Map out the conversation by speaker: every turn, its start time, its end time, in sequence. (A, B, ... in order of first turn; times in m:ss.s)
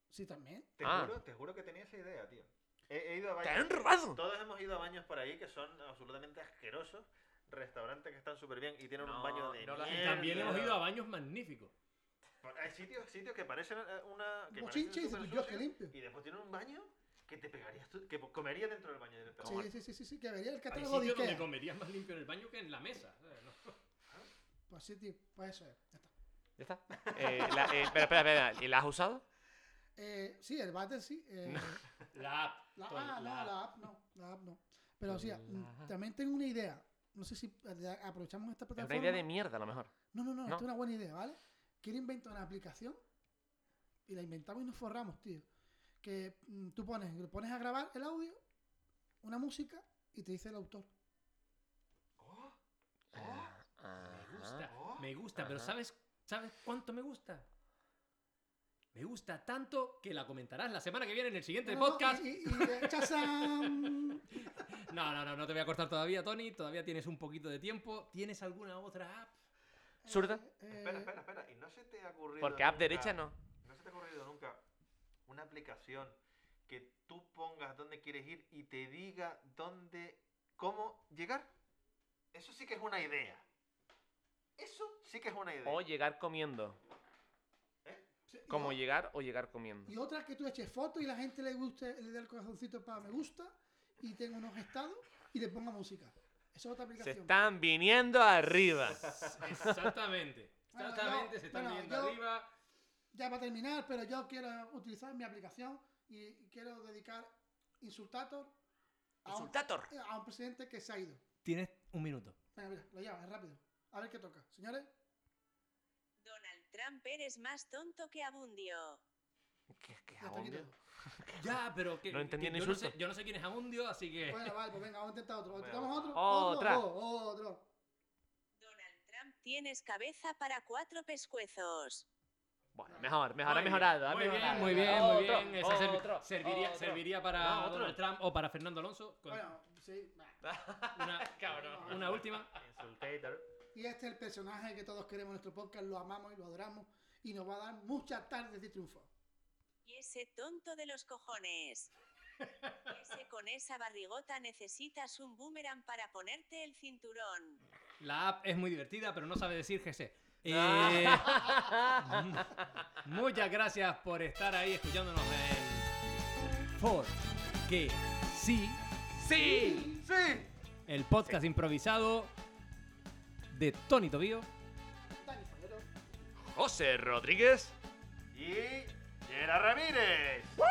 0:00.1-0:00.7 A
0:00.8-0:10.8 B
0:00.8-0:01.2 C
0:03.4-0:04.2 C
0:09.0-0:10.8 C
0:09.8-0:11.7 D
0:12.4-0:19.7 B
0:14.5-0:16.0 A
0:19.4-0:19.7 C
0:19.4-0:21.5 A
0:20.7-0:23.7 D
0:24.7-0:26.1 A
0:26.6-0:29.2 C
0:27.0-0:27.9 B
0:27.2-0:27.9 A
0:30.0-0:31.8 A
0:31.5-0:31.8 C
0:32.1-0:33.6 D
0:32.8-0:39.2 A
0:35.4-0:35.9 C
0:38.8-0:39.9 C
0:40.1-0:43.0 A
0:44.1-0:45.5 A
0:46.0-0:48.4 A
0:49.2-0:50.9 A
0:52.2-0:52.6 B
0:53.1-0:53.5 B
0:53.1-0:54.7 C
0:54.0-0:57.5 D
0:54.7-0:55.1 B
0:55.4-0:55.8 C
0:58.9-1:09.3 D
1:01.6-1:04.2 A
1:10.0-1:11.1 A
1:10.1-1:10.4 C
1:10.7-1:14.6 B
1:12.4-1:13.4 C
1:15.3-1:21.5 B
1:22.3-1:23.4 B
1:24.6-1:25.8 B
1:25.7-1:26.8 C
1:28.3-1:28.8 A
1:28.5-1:29.9 C
1:29.9-1:37.3 A
1:37.0-1:39.9 C
1:39.0-1:42.5 D
1:40.7-1:42.2 A
1:43.1-1:48.5 A
1:49.2-1:49.9 C
1:49.3-1:51.2 A
1:51.4-1:52.4 D
1:52.6-1:54.9 A
1:56.2-1:59.0 E
1:59.7-2:01.6 C
2:00.2-2:00.7 A
2:01.4-2:04.5 D
2:02.1-2:03.0 C
2:04.3-2:07.7 A
2:05.5-2:06.2 B
2:06.1-2:06.8 C
2:08.6-2:12.1 E
2:12.8-2:18.0 C
2:12.9-2:13.1 A
2:13.5-2:19.4 D
2:13.5-2:15.2 B
2:14.4-2:15.6 A
2:19.3-2:20.4 A
2:20.4-2:22.4 C
2:21.0-2:22.5 D
2:21.4-2:22.1 A
2:22.2-2:23.4 B
2:23.7-2:29.1 A
2:29.8-2:31.9 E
2:32.8-2:37.6 E
2:38.0-2:45.9 D
2:40.5-2:42.6 C
2:46.8-2:48.8 D
2:49.2-2:50.0 C
2:49.3-2:50.0 A
2:50.0-2:50.5 B
2:50.9-2:52.3 D
2:53.5-2:54.5 D
2:55.2-2:55.9 A
2:56.5-2:57.7 C
2:58.3-3:00.6 B